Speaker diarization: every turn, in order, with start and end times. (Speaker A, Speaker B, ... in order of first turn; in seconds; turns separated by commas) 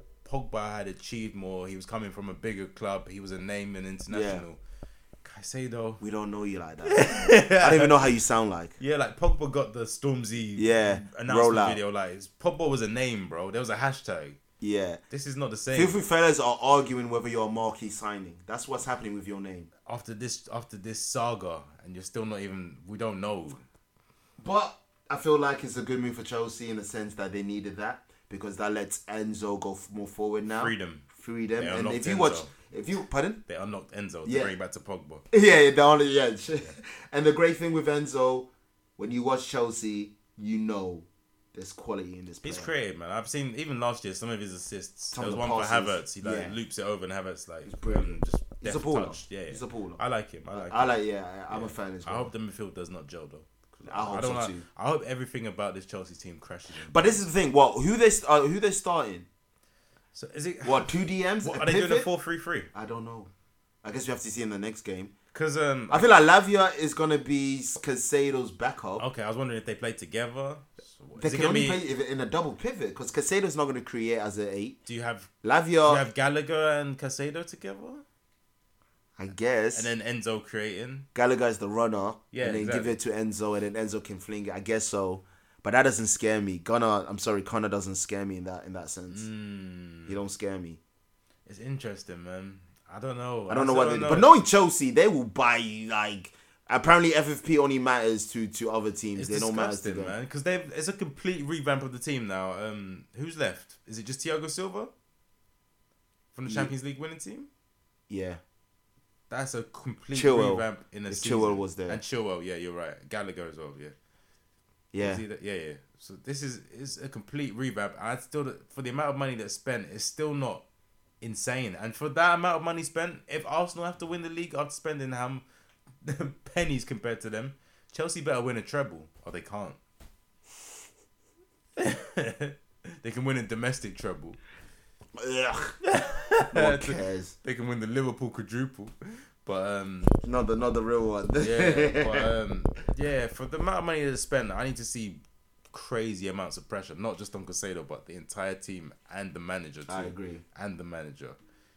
Speaker A: 0.2-4.6, Speaker B: 4.1-4.4, Speaker A: 5.2-6.0, Speaker B: 6.0-8.8, Speaker A: 6.8-8.0, Speaker A: 8.8-14.4, Speaker B: 10.6-11.8, Speaker B: 14.6-15.0, Speaker A: 15.1-16.0, Speaker B: 15.7-19.7, Speaker A: 19.9-23.6, Speaker B: 24.4-33.4, Speaker A: 30.5-31.1, Speaker A: 31.6-32.5, Speaker A: 33.5-35.2, Speaker B: 34.2-34.5, Speaker B: 35.3-42.7, Speaker A: 42.4-51.0, Speaker B: 45.1-46.6, Speaker B: 47.7-50.0, Speaker B: 50.5-52.3, Speaker A: 51.5-57.2, Speaker B: 53.9-54.6, Speaker B: 56.9-59.3, Speaker A: 60.1-62.7, Speaker B: 60.6-62.1, Speaker B: 62.7-63.3, Speaker B: 63.8-65.1, Speaker A: 65.3-66.1, Speaker B: 65.9-69.0, Speaker A: 69.0-71.8, Speaker B: 71.2-74.8, Speaker A: 74.9-75.3, Speaker B: 75.4-76.0, Speaker A: 75.8-78.0, Speaker B: 79.2-79.9, Speaker A: 79.7-81.1, Speaker B: 81.2-89.3, Speaker A: 82.3-83.0, Speaker A: 89.1-90.2, Speaker B: 90.1-90.8, Speaker A: 91.5-94.3, Speaker B: 93.5-100.2, Speaker A: 99.2-104.9, Speaker A: 106.3-107.5, Speaker B: 108.1-108.4, Speaker A: 109.3-113.9, Speaker B: 110.1-112.0, Speaker B: 114.9-115.2, Speaker A: 115.0-120.7, Speaker A: 121.2-125.4, Speaker A: 126.0-129.8, Speaker A: 131.8-134.4, Speaker B: 135.2-135.8, Speaker A: 135.8-140.2, Speaker B: 136.5-137.3, Speaker B: 140.2-142.3, Speaker A: 141.4-145.2, Speaker A: 145.7-151.4, Speaker B: 149.9-150.4